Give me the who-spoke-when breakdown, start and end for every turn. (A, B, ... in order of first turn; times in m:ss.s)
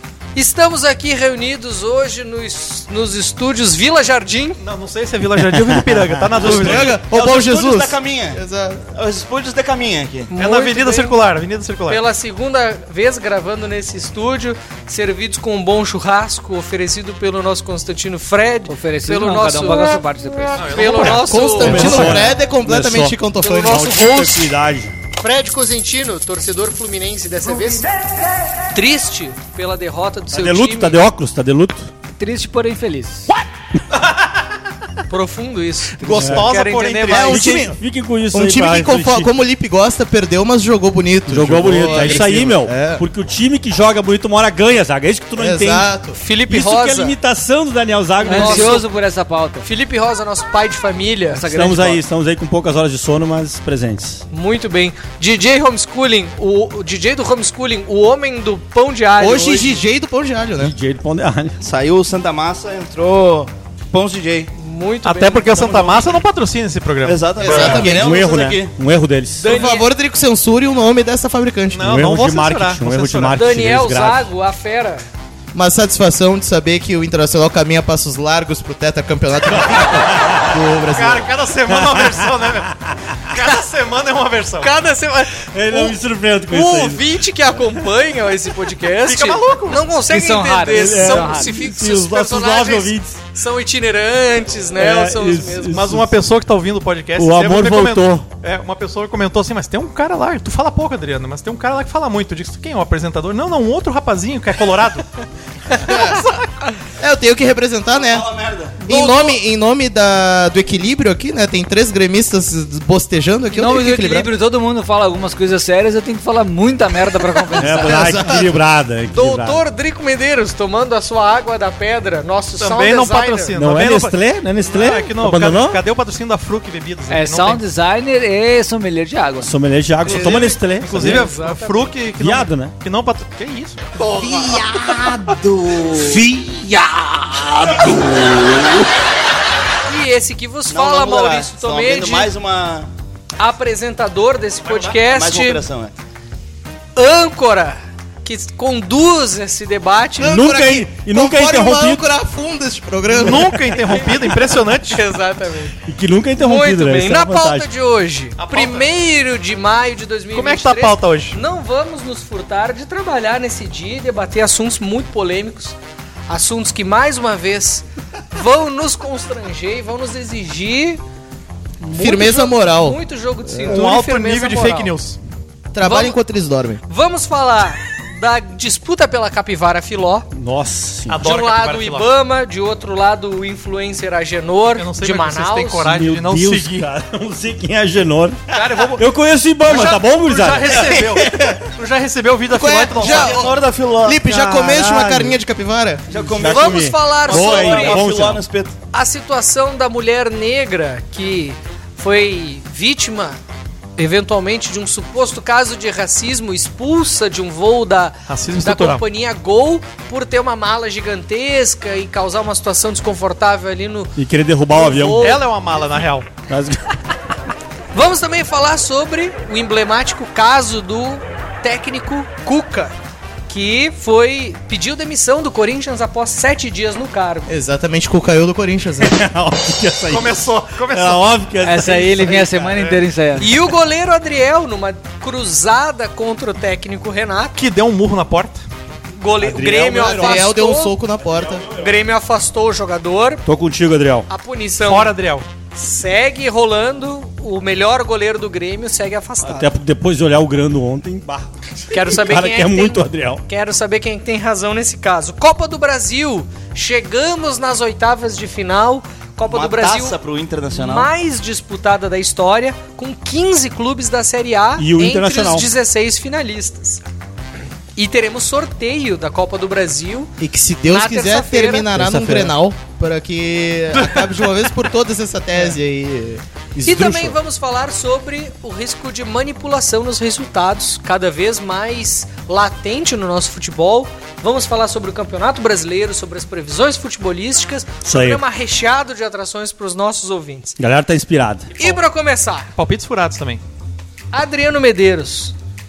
0:00.3-0:04.6 A
0:04.6-0:07.0 B
0:05.5-0:06.2 C
0:06.3-0:08.4 D
0:06.4-0:08.9 E
0:08.9-0:10.3 D
0:10.3-0:11.2 A
0:10.4-0:12.0 B
0:11.9-0:20.0 A
0:18.7-0:20.9 F
0:20.6-0:21.4 B
0:20.6-0:22.1 A
0:21.1-0:24.0 E
0:21.5-0:25.0 C
0:23.4-0:24.5 A
0:25.2-0:27.9 A
0:28.6-0:31.0 A
0:30.3-0:31.9 C
0:32.2-0:33.3 F
0:35.1-0:37.7 A
0:36.0-0:37.6 B
0:36.2-0:36.6 C
0:37.1-0:37.8 E
0:37.2-0:39.3 C
0:38.3-0:43.0 E
0:41.3-0:45.9 C
0:42.0-0:42.3 A
0:42.0-0:42.4 B
0:45.4-0:46.2 E
0:46.2-0:47.2 A
0:46.5-0:48.8 C
0:48.2-0:49.7 F
0:48.3-0:48.8 A
0:49.6-0:51.5 A
0:51.3-0:52.0 F
0:51.5-0:54.2 C
0:54.3-0:59.8 A
0:59.2-1:00.8 E
1:00.6-1:01.6 C
1:01.6-1:04.5 D
1:04.6-1:06.2 A
1:05.0-1:07.3 B
1:07.0-1:08.7 D
1:07.4-1:08.2 E
1:07.5-1:09.5 C
1:09.4-1:09.9 A
1:09.5-1:11.9 E
1:11.7-1:13.4 B
1:11.8-1:14.2 C
1:13.3-1:15.1 A
1:15.5-1:21.3 E
1:19.8-1:20.5 C
1:20.9-1:22.7 B
1:21.7-1:22.7 C
1:23.3-1:24.7 B
1:24.6-1:26.0 A
1:25.5-1:27.1 C
1:26.5-1:35.8 A
1:29.0-1:29.9 B
1:30.1-1:31.5 F
1:30.7-1:33.2 C
1:34.8-1:36.1 C
1:35.7-1:45.0 B
1:37.2-1:38.3 C
1:45.8-1:46.3 E
1:47.0-1:48.3 E
1:48.1-1:48.8 D
1:48.8-1:54.3 E
1:53.5-1:58.1 F
1:57.6-1:59.6 C
1:57.7-1:58.6 E
1:59.1-2:03.6 A
2:02.6-2:07.6 B
2:03.5-2:05.8 C
2:07.1-2:09.5 F
2:09.4-2:11.3 C
2:10.0-2:13.9 B
2:10.8-2:11.8 A
2:12.2-2:12.7 C
2:14.2-2:15.8 F
2:15.8-2:18.6 D
2:19.8-2:22.3 A
2:20.7-2:22.9 D
2:23.4-2:25.6 A
2:24.6-2:25.0 B
2:25.1-2:25.9 D
2:27.0-2:30.4 A
2:30.2-2:33.7 E
2:30.2-2:32.0 C
2:33.1-2:35.0 B
2:33.9-2:35.8 A
2:35.9-2:37.7 C
2:36.4-2:45.8 A
2:38.4-2:38.9 B
2:40.3-2:41.4 B
2:46.3-2:51.0 A
2:51.8-2:54.9 A
2:51.9-2:53.0 E
2:53.6-2:55.2 B
2:55.7-2:56.8 E
2:55.8-2:56.2 A
2:56.9-3:00.3 A
3:00.3-3:01.3 C
3:01.1-3:02.1 B
3:01.2-3:05.9 A
3:04.8-3:06.9 B
3:05.9-3:11.1 C
3:08.5-3:09.1 B
3:09.6-3:13.5 B
3:11.2-3:11.5 E
3:12.5-3:16.1 E
3:13.0-3:14.2 D
3:14.3-3:15.4 C
3:16.1-3:18.8 D
3:16.2-3:18.4 C
3:16.4-3:18.0 A
3:18.9-3:23.4 A
3:24.0-3:34.1 A
3:28.3-3:29.0 B
3:34.2-3:35.3 C
3:34.7-3:35.4 A
3:35.2-3:36.3 B
3:36.5-3:36.8 C
3:37.9-3:42.9 A
3:43.5-3:47.5 A
3:47.5-3:49.2 E
3:49.0-3:52.5 C
3:50.1-3:53.0 B
3:51.6-3:53.5 F
3:53.4-3:57.6 A
3:57.5-3:58.6 B
3:59.2-4:01.0 A
3:59.4-4:00.5 C
4:00.0-4:01.7 E
4:01.4-4:01.9 C
4:01.8-4:03.4 A
4:03.5-4:04.3 C
4:04.3-4:05.2 A
4:04.8-4:05.5 B
4:05.7-4:09.7 A
4:09.4-4:13.4 C
4:11.9-4:20.2 A
4:19.5-4:21.1 D
4:20.7-4:27.0 A
4:24.8-4:25.7 C
4:28.0-4:30.3 A
4:30.4-4:37.4 E
4:30.9-4:31.9 A
4:32.0-4:32.5 C
4:36.8-4:50.8 A
4:48.0-4:48.4 C
4:50.8-4:51.7 C
4:51.8-4:52.7 A
4:52.8-4:53.6 B
4:54.3-4:55.5 A